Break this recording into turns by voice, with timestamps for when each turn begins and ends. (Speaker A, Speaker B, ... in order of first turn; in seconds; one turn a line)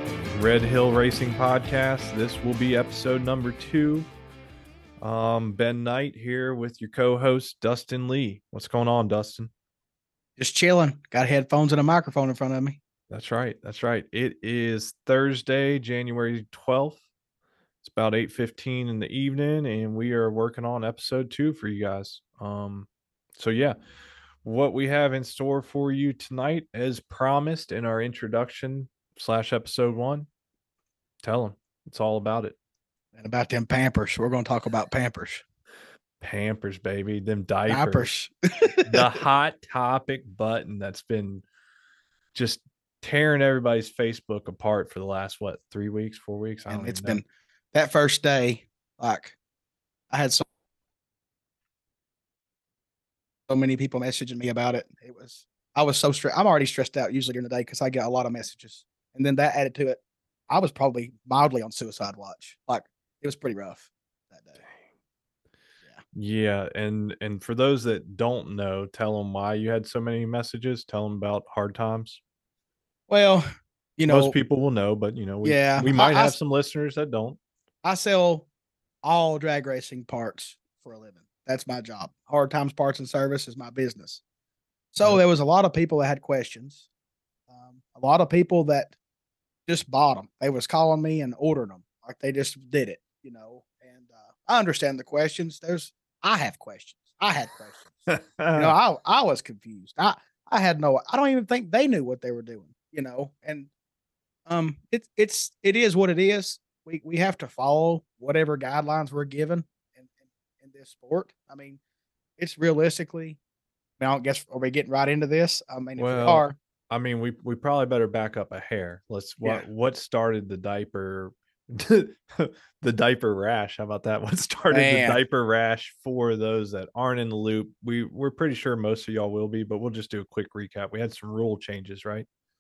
Speaker A: 0.3-4.1
Speaker A: 5.0-9.5
Speaker B: 10.4-12.8
Speaker A: 13.1-17.0
Speaker A: 17.8-23.8
Speaker A: 24.4-30.3
Speaker A: 31.2-32.6
Speaker B: 33.1-35.4
Speaker A: 36.2-38.1
Speaker B: 37.7-39.0
Speaker A: 38.9-41.5
Speaker A: 42.3-47.2
Speaker B: 46.7-49.4
Speaker B: 50.1-50.4
Speaker B: 53.5-64.6
Speaker A: 66.1-72.2
Speaker B: 73.1-74.4
Speaker A: 74.1-77.4
Speaker B: 75.4-76.3
Speaker B: 77.8-78.5
Speaker B: 79.0-84.2
Speaker B: 84.9-86.8
Speaker B: 87.5-89.0
Speaker B: 89.7-103.7
Speaker A: 98.1-98.8
Speaker B: 104.5-110.1
Speaker B: 110.6-111.8
Speaker B: 112.4-113.4
Speaker B: 114.0-116.6
Speaker A: 116.0-132.3
Speaker B: 124.7-125.2